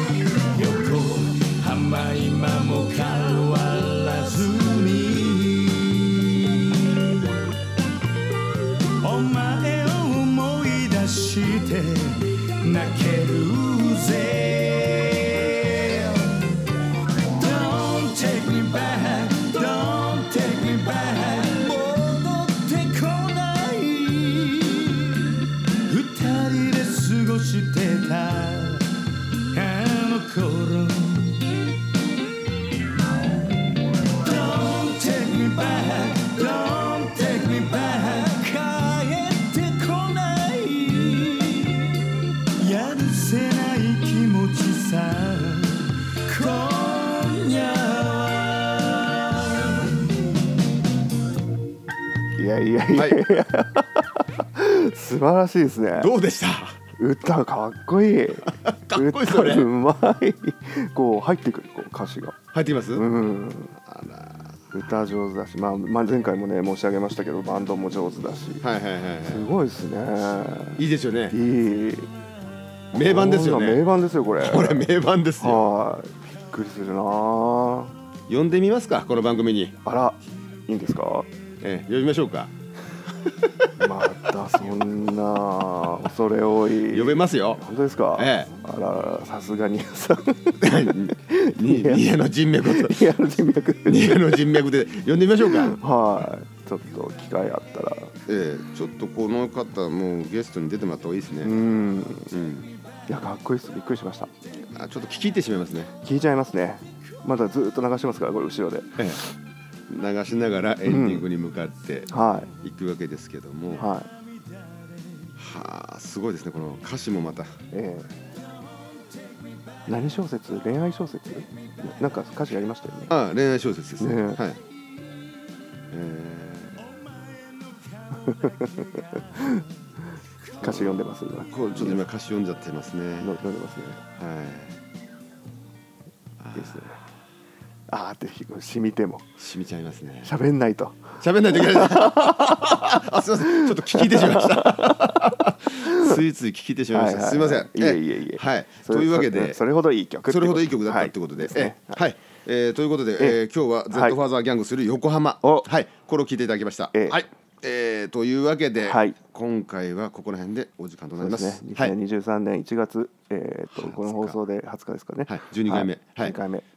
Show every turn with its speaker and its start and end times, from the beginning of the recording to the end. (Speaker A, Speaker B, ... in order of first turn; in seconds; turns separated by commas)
Speaker A: 0.5-7.3, Speaker A: 9.0-16.6, Speaker A: 17.2-31.6, Speaker A: 34.1-50.0, Speaker B: 52.3-56.1, Speaker C: 52.9-53.3, Speaker C: 55.9-56.8, Speaker B: 57.0-62.4, Speaker C: 58.4-59.7, Speaker C: 62.5-63.0, Speaker B: 62.9-63.8, Speaker C: 63.9-64.7, Speaker B: 64.7-68.6, Speaker C: 68.6-69.5, Speaker B: 69.2-72.1, Speaker C: 70.8-71.4, Speaker C: 72.9-75.6, Speaker B: 72.9-74.9, Speaker B: 75.4-77.9, Speaker C: 78.3-79.8, Speaker B: 79.8-81.3, Speaker C: 81.6-82.5, Speaker C: 83.4-83.9, Speaker B: 83.8-92.1, Speaker C: 86.8-87.6, Speaker C: 88.2-88.5, Speaker C: 90.6-93.1, Speaker B: 92.6-94.5, Speaker C: 93.8-96.3, Speaker B: 95.4-98.1, Speaker C: 98.2-101.6, Speaker B: 101.4-102.3, Speaker C: 102.3-102.7, Speaker B: 103.1-104.3, Speaker C: 104.7-105.9, Speaker B: 106.0-109.3, Speaker C: 109.0-109.2, Speaker C: 109.9-113.9, Speaker B: 110.8-111.3, Speaker B: 112.1-112.5, Speaker B: 113.7-114.1, Speaker C: 115.3-117.6, Speaker B: 117.7-118.2, Speaker B: 119.9-123.1, Speaker C: 123.1-124.6, Speaker B: 124.0-124.4, Speaker C: 125.9-126.9, Speaker B: 128.1-129.6, Speaker B: 130.6-132.0, Speaker C: 130.6-133.4, Speaker B: 133.2-134.0, Speaker C: 134.2-134.8, Speaker C: 136.4-137.0, Speaker B: 136.5-137.0, Speaker B: 137.9-139.3, Speaker C: 139.4-140.3, Speaker B: 140.2-142.8, Speaker C: 141.2-149.6, Speaker B: 143.4-145.2, Speaker B: 145.8-146.2, Speaker B: 146.9-152.0, Speaker C: 150.2-162.0, Speaker B: 153.9-154.2, Speaker B: 155.4-155.7, Speaker B: 156.9-157.2, Speaker B: 158.8-159.2, Speaker B: 161.2-166.7, Speaker C: 163.7-164.4, Speaker C: 165.3-166.3